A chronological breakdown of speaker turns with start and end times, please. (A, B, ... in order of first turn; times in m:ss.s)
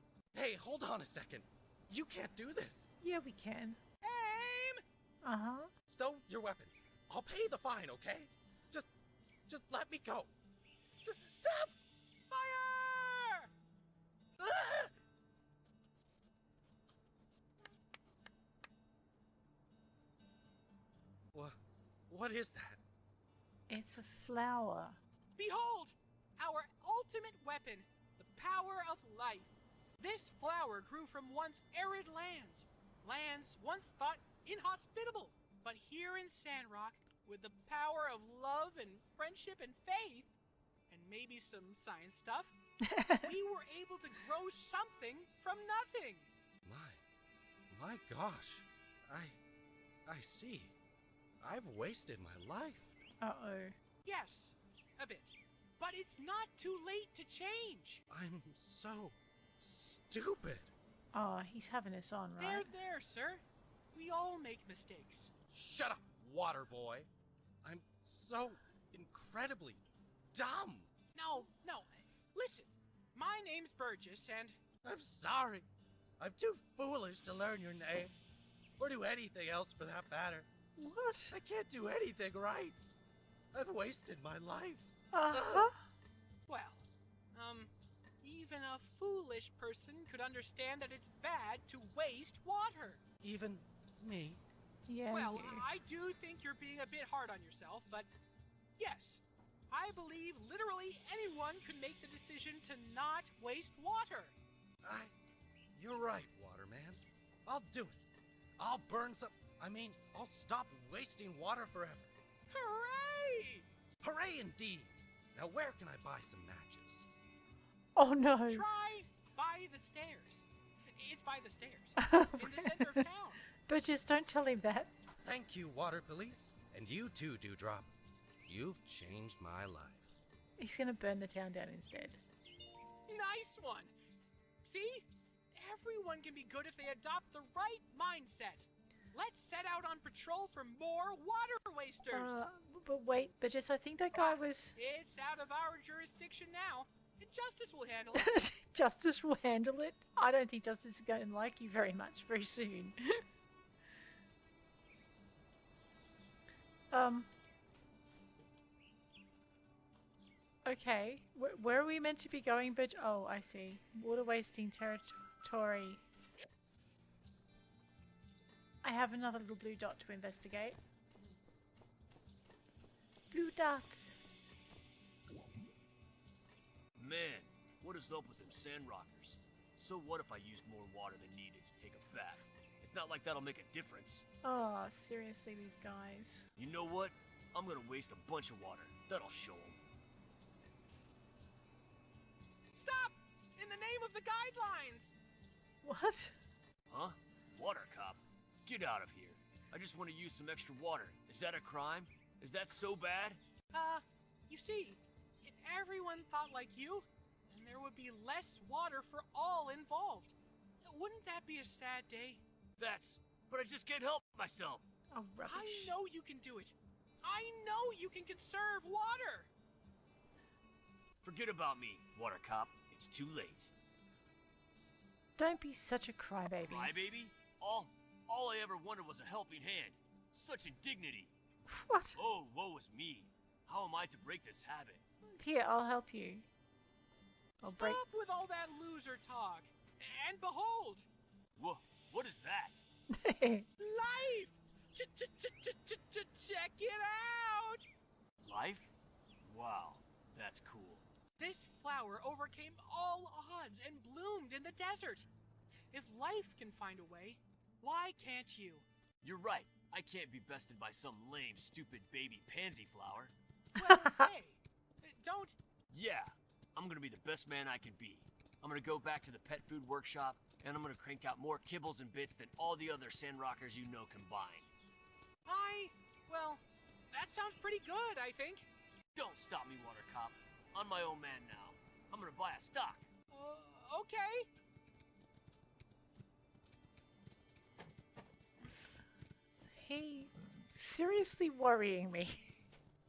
0:00.3-0:02.9 A
0:03.0-0:03.8 B
0:04.0-0:04.8 C
0:05.2-0:05.7 B
0:05.9-0:08.9 A
0:09.5-0:10.3 A
0:11.0-0:11.8 A
0:12.3-0:13.5 C
0:14.4-0:14.9 A
0:22.1-0:22.8 A
0:23.7-0:25.0 B
0:25.4-0:40.3 C
0:40.9-0:42.5 C
0:42.9-0:43.3 B
0:43.2-0:46.3 C
0:46.7-0:47.0 A
0:47.7-0:49.4 A
0:50.1-0:50.8 A
0:51.4-0:52.9 A
0:53.2-0:53.8 B
0:54.0-0:58.0 C
0:58.1-1:00.7 A
1:01.1-1:02.7 B
1:02.4-1:05.3 C
1:05.5-1:07.1 A
1:07.6-1:09.8 A
1:10.3-1:10.9 A
1:11.2-1:14.6 C
1:14.8-1:15.7 A
1:16.2-1:18.1 A
1:18.8-1:20.5 A
1:20.8-1:21.4 B
1:21.3-1:22.8 A
1:23.5-1:25.7 A
1:25.1-1:25.8 B
1:26.5-1:33.0 C
1:33.2-1:34.4 A
1:34.9-1:35.7 B
1:35.1-1:38.1 C
1:38.8-1:44.4 C
1:44.8-1:45.1 A
1:45.8-1:48.0 A
1:48.6-1:52.1 A
1:52.5-1:53.7 C
1:54.0-1:57.1 A
1:58.0-1:58.6 B
1:58.5-2:03.4 C
2:02.0-2:03.0 B
2:03.6-2:04.9 B
2:05.2-2:07.9 A
2:08.4-2:10.1 A
2:10.6-2:12.2 B
2:13.1-2:13.9 C
2:14.6-2:22.4 C
2:22.1-2:24.8 B
2:24.1-2:28.3 C
2:28.2-2:33.2 B
2:36.9-2:37.3 B
2:40.6-2:46.0 B
2:48.8-2:50.8 B
2:53.3-2:54.2 B
2:57.0-3:04.2 D
3:04.4-3:06.5 B
3:06.6-3:09.8 D
3:12.8-3:15.1 C
3:15.8-3:16.3 B
3:16.9-3:23.4 D
3:23.7-3:32.4 C
3:32.8-3:34.8 D
3:35.1-3:35.9 B
3:35.4-3:39.5 C
3:41.2-3:43.7 D
3:45.4-3:46.9 B
3:46.6-3:51.3 D
3:51.7-3:52.2 B
3:52.2-3:55.0 D
3:55.4-3:56.5 B
3:57.6-3:58.0 B
3:57.6-4:01.1 C
4:01.6-4:02.8 D
4:03.1-4:03.7 B
4:03.8-4:07.9 C
4:08.4-4:08.9 D
4:09.4-4:11.0 D
4:11.4-4:15.3 C
4:15.9-4:18.9 C
4:19.2-4:23.3 D
4:23.8-4:25.6 C
4:25.9-4:34.7 D
4:35.4-4:38.7 C
4:39.2-4:43.1 D
4:43.3-4:44.5 C
4:49.8-4:52.5 B